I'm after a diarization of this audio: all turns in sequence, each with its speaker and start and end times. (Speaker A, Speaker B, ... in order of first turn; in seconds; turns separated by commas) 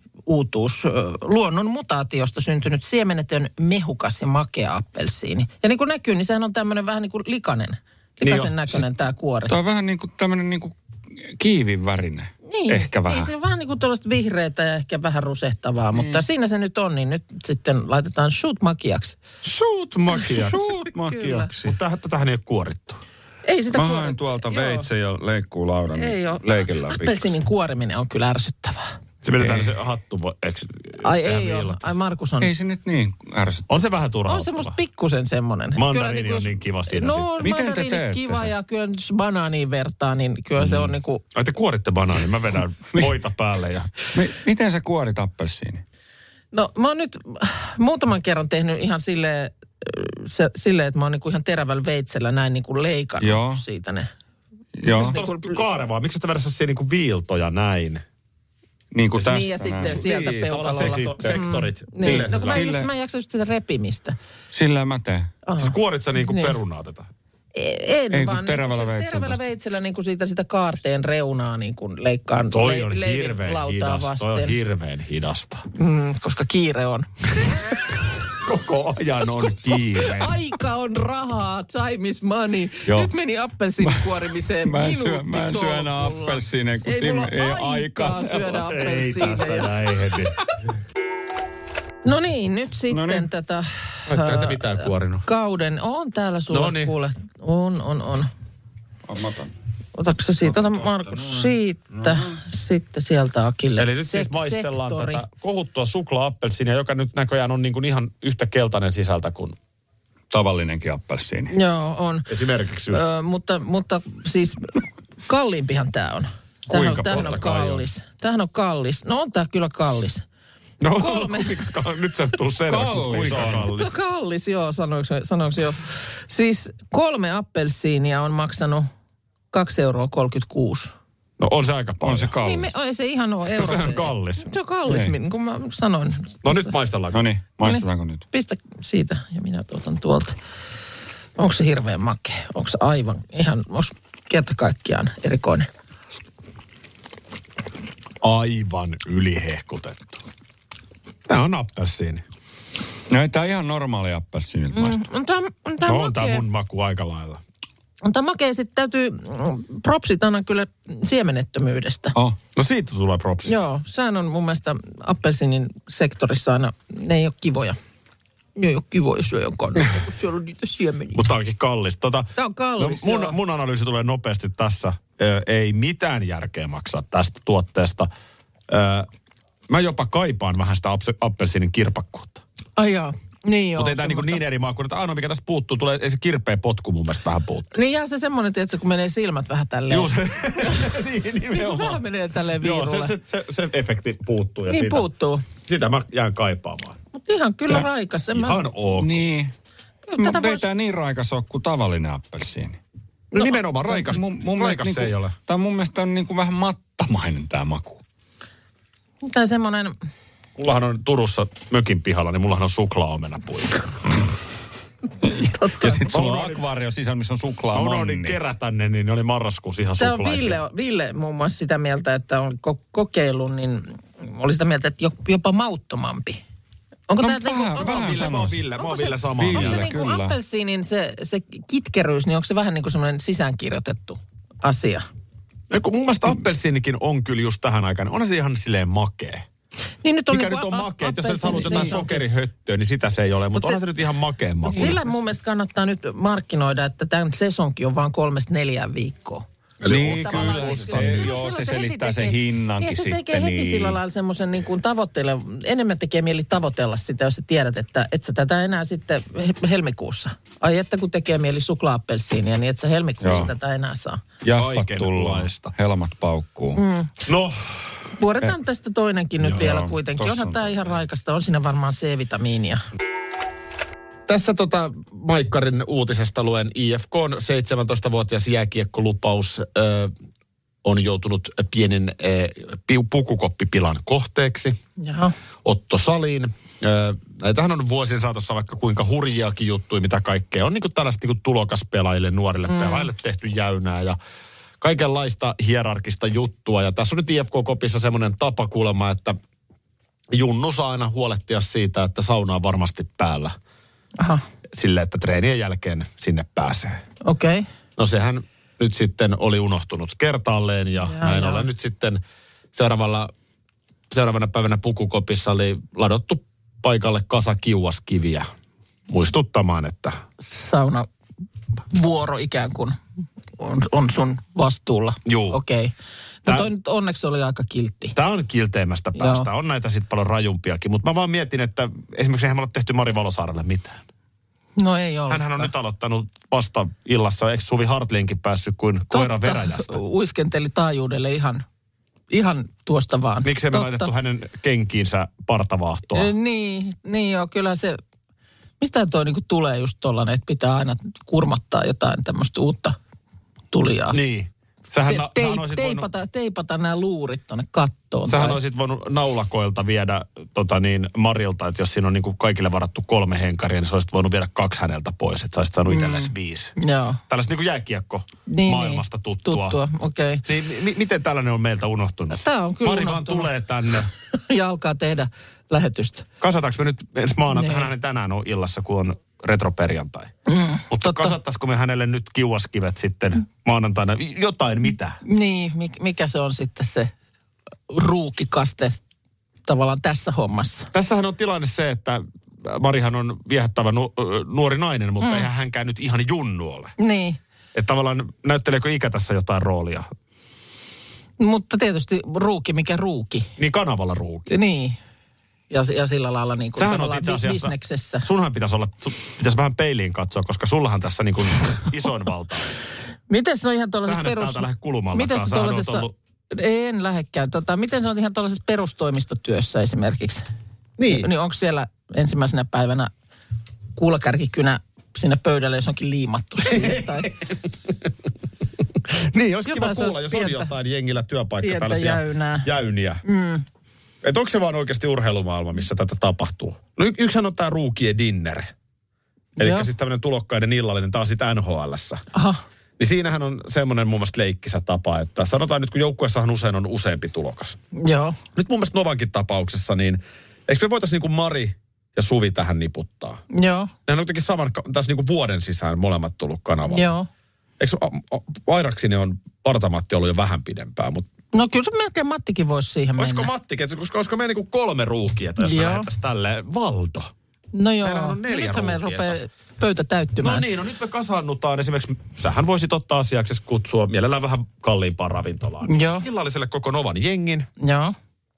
Speaker A: 0.3-9.5, Speaker B: 8.2-8.6, Speaker C: 9.5-13.3, Speaker A: 12.5-19.2, Speaker C: 15.9-16.2, Speaker B: 19.4-20.7, Speaker A: 20.1-21.5, Speaker C: 20.4-21.8, Speaker B: 21.6-23.0, Speaker A: 23.5-24.9, Speaker C: 23.7-27.4, Speaker A: 25.9-29.0, Speaker B: 29.2-31.9, Speaker C: 29.4-29.7, Speaker A: 31.0-32.5, Speaker C: 32.4-33.7, Speaker B: 33.7-34.8, Speaker A: 34.3-41.2, Speaker B: 35.8-37.3, Speaker C: 37.4-38.5, Speaker B: 40.7-44.1, Speaker C: 44.1-45.8, Speaker A: 46.5-54.1, Speaker C: 53.2-53.6, Speaker C: 54.8-55.2, Speaker A: 54.9-55.6, Speaker B: 54.9-58.0, Speaker C: 58.9-60.0, Speaker B: 59.1-62.6, Speaker A: 59.2-64.2, Speaker C: 60.8-61.4, Speaker C: 62.0-62.9, Speaker C: 64.5-65.3, Speaker A: 65.5-66.6, Speaker B: 65.6-67.1, Speaker A: 67.5-74.6, Speaker C: 68.1-69.4, Speaker B: 72.5-75.7, Speaker A: 75.8-77.6, Speaker B: 78.3-80.3, Speaker A: 79.6-89.7, Speaker C: 83.8-88.7, Speaker B: 88.4-90.3, Speaker A: 92.0-98.3, Speaker C: 92.9-93.3, Speaker B: 94.1-95.3, Speaker B: 96.5-96.9, Speaker C: 99.1-99.5, Speaker A: 100.0-105.2, Speaker C: 100.4-102.4, Speaker B: 103.8-109.6, Speaker C: 110.3-111.5, Speaker A: 111.5-112.3, Speaker B: 112.3-113.1, Speaker A: 112.9-120.2, Speaker B: 116.7-117.9, Speaker C: 116.9-117.4, Speaker B: 120.8-123.9, Speaker A: 121.0-121.7, Speaker C: 122.7-123.7, Speaker A: 123.7-128.9, Speaker A: 129.5-130.9, Speaker B: 131.4-132.3, Speaker C: 132.0-132.7, Speaker A: 132.4-136.7, Speaker B: 133.6-134.5, Speaker C: 134.9-135.2, Speaker B: 136.4-137.2, Speaker C: 137.1-138.2, Speaker A: 137.6-140.3, Speaker A: 141.4-145.7, Speaker B: 148.2-150.2, Speaker B: 151.3-152.2, Speaker C: 153.1-155.0, Speaker A: 154.7-156.4, Speaker B: 155.8-157.4, Speaker A: 158.0-162.2, Speaker B: 162.6-163.6, Speaker A: 163.5-167.8, Speaker A: 168.6-171.2, Speaker B: 171.1-178.1, Speaker A: 172.4-173.4, Speaker B: 178.7-179.1, Speaker B: 179.7-182.4, Speaker A: 182.8-184.4, Speaker B: 183.8-187.8, Speaker A: 187.7-191.0, Speaker B: 189.9-192.0, Speaker A: 191.5-193.2, Speaker B: 192.6-197.0, Speaker A: 194.7-195.5, Speaker A: 197.2-198.6, Speaker B: 198.3-199.2, Speaker C: 199.0-199.5, Speaker A: 200.1-200.7, Speaker C: 200.2-202.8, Speaker B: 203.3-205.3, Speaker C: 203.4-208.0, Speaker A: 209.2-209.9, Speaker B: 210.6-214.2, Speaker C: 215.2-218.4, Speaker A: 215.3-216.1, Speaker B: 216.1-216.6, Speaker B: 217.7-220.6, Speaker A: 220.0-226.4, Speaker A: 227.1-235.1, Speaker C: 227.2-228.6, Speaker B: 227.8-229.9, Speaker C: 229.4-230.4, Speaker B: 235.7-239.4, Speaker A: 240.0-242.2, Speaker B: 240.3-245.0, Speaker C: 241.5-241.9, Speaker A: 243.5-243.8, Speaker A: 244.7-249.4, Speaker B: 249.8-251.3, Speaker C: 249.9-254.0, Speaker A: 250.0-264.2, Speaker C: 263.2-263.5, Speaker C: 264.4-266.8, Speaker B: 264.5-265.7, Speaker A: 266.8-267.1, Speaker B: 267.3-267.8, Speaker A: 268.2-272.8, Speaker C: 269.4-271.0, Speaker B: 274.3-280.1, Speaker B: 280.8-284.8, Speaker A: 285.0-285.3, Speaker B: 285.6-294.2, Speaker A: 292.7-293.1, Speaker B: 294.8-299.4, Speaker B: 300.3-303.6, Speaker B: 304.7-307.0, Speaker A: 307.2-307.7, Speaker B: 308.0-312.2, Speaker A: 311.0-311.7, Speaker B: 312.7-313.3, Speaker B: 314.1-318.5, Speaker B: 319.1-320.2, Speaker A: 320.4-321.1, Speaker A: 321.9-323.0, Speaker A: 323.6-325.9, Speaker B: 325.2-325.6, Speaker A: 326.4-328.2, Speaker B: 328.1-334.0, Speaker A: 329.1-329.5, Speaker A: 334.8-335.7, Speaker B: 335.3-340.0, Speaker A: 339.1-341.6, Speaker A: 342.3-344.1, Speaker B: 343.4-346.3, Speaker A: 346.1-348.0, Speaker A: 348.8-353.0, Speaker A: 353.7-354.2, Speaker B: 354.1-356.1, Speaker A: 355.1-358.6, Speaker B: 358.3-366.7, Speaker A: 365.9-367.2, Speaker B: 367.3-369.8, Speaker A: 368.5-370.4, Speaker B: 370.4-374.1, Speaker A: 372.3-373.5, Speaker A: 374.3-376.3, Speaker B: 376.4-380.3, Speaker A: 377.5-377.9, Speaker A: 380.5-381.4, Speaker B: 380.9-385.2, Speaker A: 385.2-387.1, Speaker A: 387.9-389.0, Speaker A: 389.7-390.9, Speaker B: 390.9-397.0, Speaker A: 395.2-395.5, Speaker A: 397.0-397.4, Speaker B: 397.7-400.1, Speaker A: 401.4-403.5, Speaker B: 403.6-404.5, Speaker A: 404.5-405.0, Speaker A: 405.7-408.3, Speaker B: 406.8-412.9, Speaker A: 413.3-420.4, Speaker B: 414.0-416.1, Speaker B: 421.0-421.3, Speaker A: 421.1-423.1, Speaker A: 424.0-427.3, Speaker B: 426.6-427.9, Speaker B: 429.1-433.2, Speaker A: 429.7-430.7, Speaker A: 431.6-432.7, Speaker A: 433.2-433.6, Speaker B: 434.2-438.7, Speaker A: 439.6-439.9, Speaker B: 439.6-442.2, Speaker A: 442.3-442.6, Speaker B: 443.0-447.8, Speaker A: 447.9-448.4, Speaker B: 448.6-453.4, Speaker A: 453.5-453.9, Speaker B: 454.1-457.1, Speaker A: 456.9-457.3, Speaker B: 457.8-461.3, Speaker A: 461.5-463.5, Speaker B: 463.2-467.3, Speaker A: 465.6-466.1, Speaker A: 467.7-470.7, Speaker B: 468.0-469.4, Speaker B: 470.4-477.7, Speaker A: 475.9-476.3, Speaker A: 477.8-478.1